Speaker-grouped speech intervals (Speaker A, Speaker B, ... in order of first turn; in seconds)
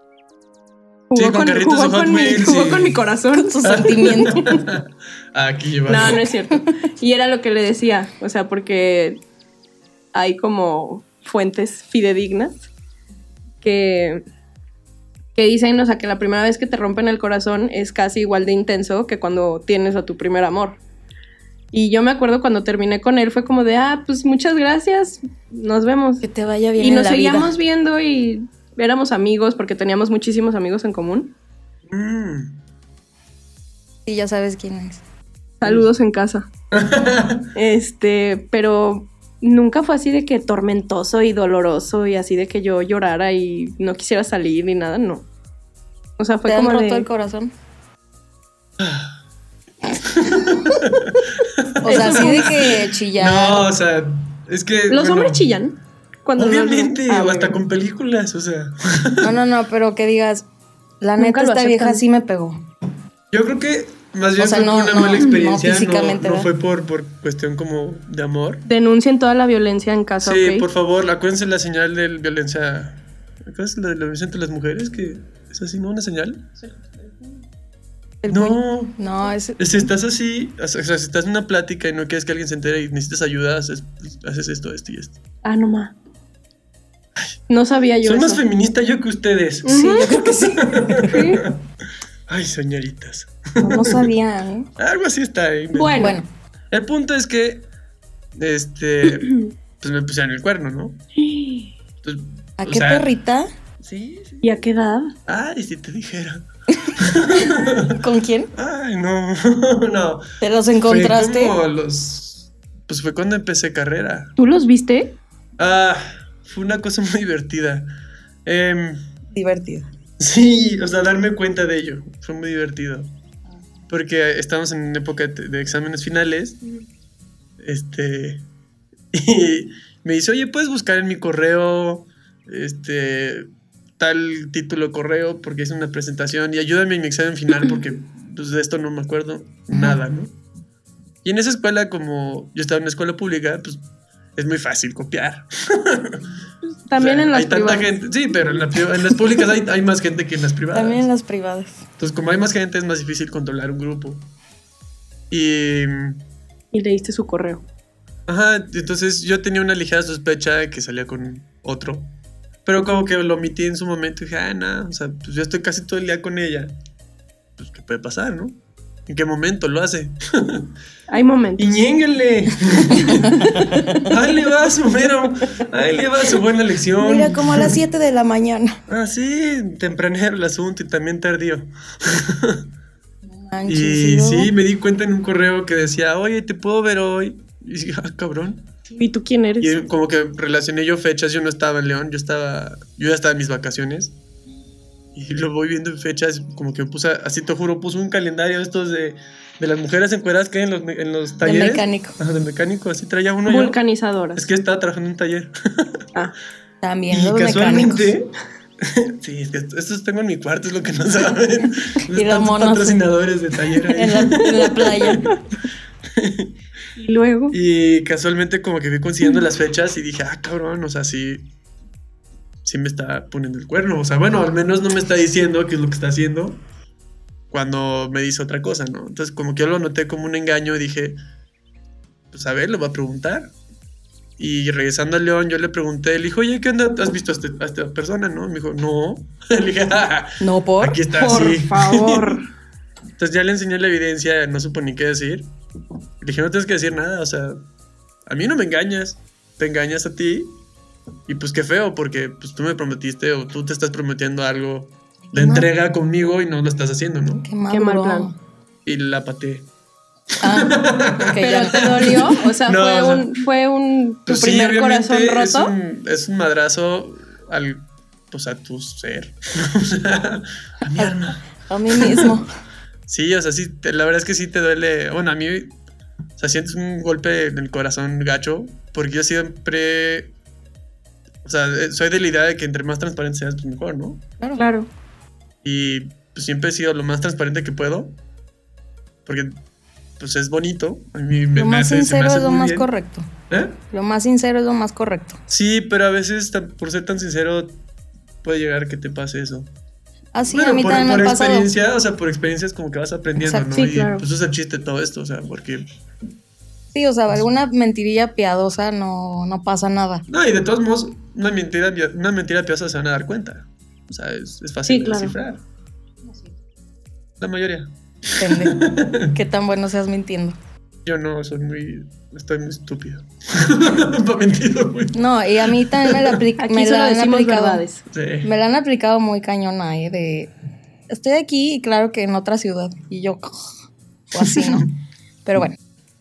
Speaker A: 1.1-4.6, 5.9-9.2, 10.1-12.7, 13.6-14.2, 15.3-20.8, 21.7-26.2, 26.8-31.3, 35.6-36.5, 37.5-45.2, 46.2-47.1, 51.8-52.5, 54.9-57.6, 61.2-62.0, 68.7-70.7, 85.4-85.9, 87.5-88.4, 89.6-90.3, 91.1-91.5, 95.7-96.2, 101.2-101.7, 104.4-105.1, 114.4-115.2, 146.9-147.9, 156.7-157.6, 171.1-171.8, 188.9-189.8, 203.5-204.4, 216.9-217.6, 241.1-242.4, 257.7-258.3, 261.4-265.7, 284.6-284.9, 303.7-304.2, 314.9-315.3, 326.6-328.0
Speaker B: 1.1-3.0, 3.6-6.3, 31.9-32.5, 36.7-37.5, 48.8-49.2, 49.9-55.5, 56.4-59.3, 63.3-68.6, 70.2-76.5, 78.3-79.0, 79.6-85.2, 88.0-91.6, 92.3-94.1, 94.8-96.1, 96.7-97.7, 98.3-101.0, 102.0-103.1, 103.8-104.6, 105.3-108.0, 108.5-114.3, 115.6-117.9, 118.4-119.0, 120.2-123.1, 123.9-126.6, 127.6-128.4, 129.1-140.3, 141.2-143.8, 144.3-146.3, 146.9-151.0, 152.0-154.2, 155.3-156.2, 158.3-162.1, 162.6-166.7, 167.6-168.6, 169.1-170.7, 171.6-177.8, 178.9-182.6, 183.7-188.7, 189.6-194.1, 195.1-203.8, 204.3-206.0, 207.1-215.3, 216.1-216.5, 217.5-221.4, 222.6-226.6, 227.5-231.2, 232.3-233.5, 234.4-242.4, 243.2-245.5, 246.2-247.6, 248.2-250.6, 251.3-257.5, 258.8-259.7, 260.5-263.3, 264.3-272.4, 273.1-275.8, 276.4-280.3, 281.4-284.2, 285.6-288.1, 289.2-289.5, 290.2-292.9, 293.5-293.8, 295.5-297.8, 298.4-299.7, 300.5-305.8, 310.3-315.6, 317.4-319.3, 321.0-326.4, 328.1-328.5, 334.4-334.9
Speaker C: 3.3-4.5, 26.2-27.5, 34.0-35.0, 46.5-47.5, 51.8-53.7, 59.2-60.4, 61.0-62.6, 64.4-66.5, 78.2-79.9, 89.7-91.2, 93.6-94.7, 95.9-96.3, 102.6-103.5, 106.8-108.5, 110.4-111.6, 119.3-119.9, 150.7-151.8, 177.0-178.8, 183.3-184.5, 201.4-202.2, 206.8-208.1, 212.1-213.0, 213.8-215.3, 240.4-241.1, 255.3-255.7, 257.4-258.3, 260.4-262.3, 270.9-272.4, 291.5-293.3, 293.9-295.4, 300.3-301.7, 303.4-303.7, 306.9-310.2, 318.4-320.6, 325.1-327.8, 328.4-330.5, 331.1-333.6, 334.3-334.9, 335.4-335.8